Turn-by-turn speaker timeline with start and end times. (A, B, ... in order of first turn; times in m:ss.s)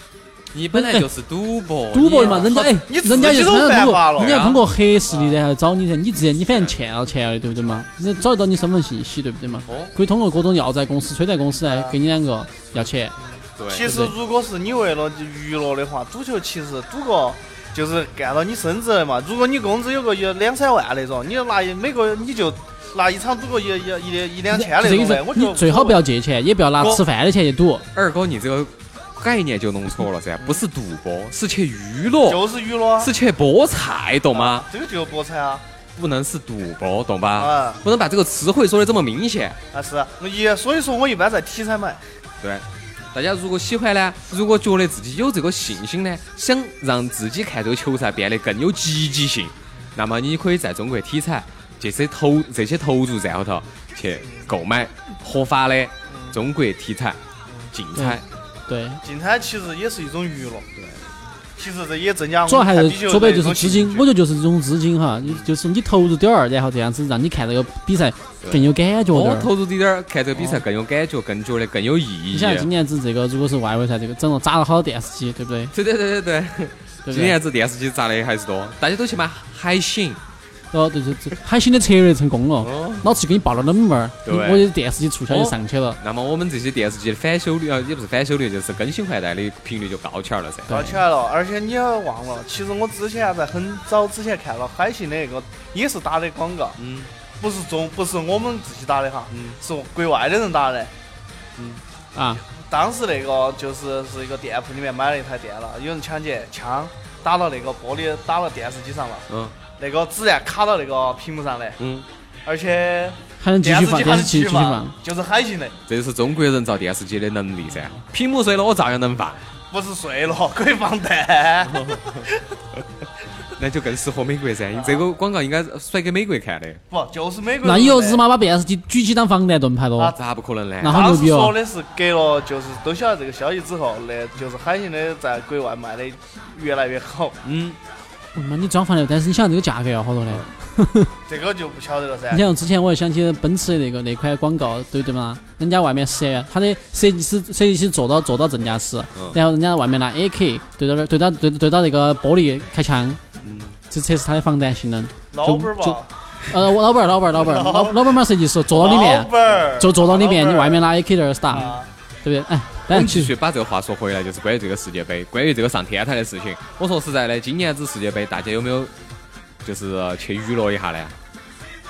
0:00.5-0:02.7 A
0:00.7-0:01.0 B
0:01.9-0:13.1 B
0:02.2-0:04.4 C
0:04.2-0:04.6 A
0:05.1-0:05.3 C
0:09.7-0:09.9 A
0:11.6-0:11.9 C
0:13.3-0:26.0 C
0:13.6-0:13.9 A
0:13.8-0:14.1 B
0:24.5-0:27.8 B
0:27.9-0:32.4 A
0:32.2-0:33.1 C
0:33.0-0:34.6 A
0:34.3-0:35.6 C
0:36.0-0:39.6 A
0:37.4-0:37.8 C
0:39.7-0:42.0 C
0:42.4-0:57.2 A
0:56.1-0:56.4 C
0:57.7-0:58.2 A
0:58.0-0:59.0 B
0:59.0-1:00.6 C
1:00.8-1:01.0 A
1:01.6-1:04.1 C
1:02.5-1:09.5 B
1:08.4-1:12.7 A
1:10.4-1:10.6 B
1:12.3-1:15.7 B
1:15.7-1:20.2 A
1:17.0-1:17.4 B
1:20.7-1:26.0 B
1:22.6-1:23.1 A
1:24.2-1:24.7 A
1:25.3-1:30.9 A
1:30.7-1:36.8 C
1:30.7-1:31.0 B
1:36.8-1:37.1 A
1:37.4-1:40.9 C
1:39.3-1:39.6 A
1:41.6-1:41.8 A
1:42.1-1:42.4 B
1:42.6-1:49.2 C
1:49.3-1:49.6 A
1:49.8-1:51.8 C
1:51.8-1:52.0 A
1:52.4-1:55.7 C
1:53.4-1:55.0 B
1:55.9-1:59.4 A
1:59.7-2:02.4 C
2:01.6-2:02.2 A
2:03.6-2:06.8 A
2:04.7-2:05.0 C
2:06.9-2:08.2 C
2:07.6-2:10.1 B
2:10.2-2:11.2 A
2:10.8-2:11.6 B
2:10.8-2:17.4 C
2:17.4-2:17.8 A
2:18.3-2:21.1 B
2:21.3-2:22.4 C
2:22.3-2:33.2 B
2:33.4-2:33.8 A
2:33.9-2:41.7 B
2:35.3-2:36.1 C
2:37.4-2:38.2 C
2:38.7-2:40.8 C
2:41.5-2:41.9 C
2:42.2-2:43.3 B
2:42.9-2:48.9 A
2:49.6-2:51.1 A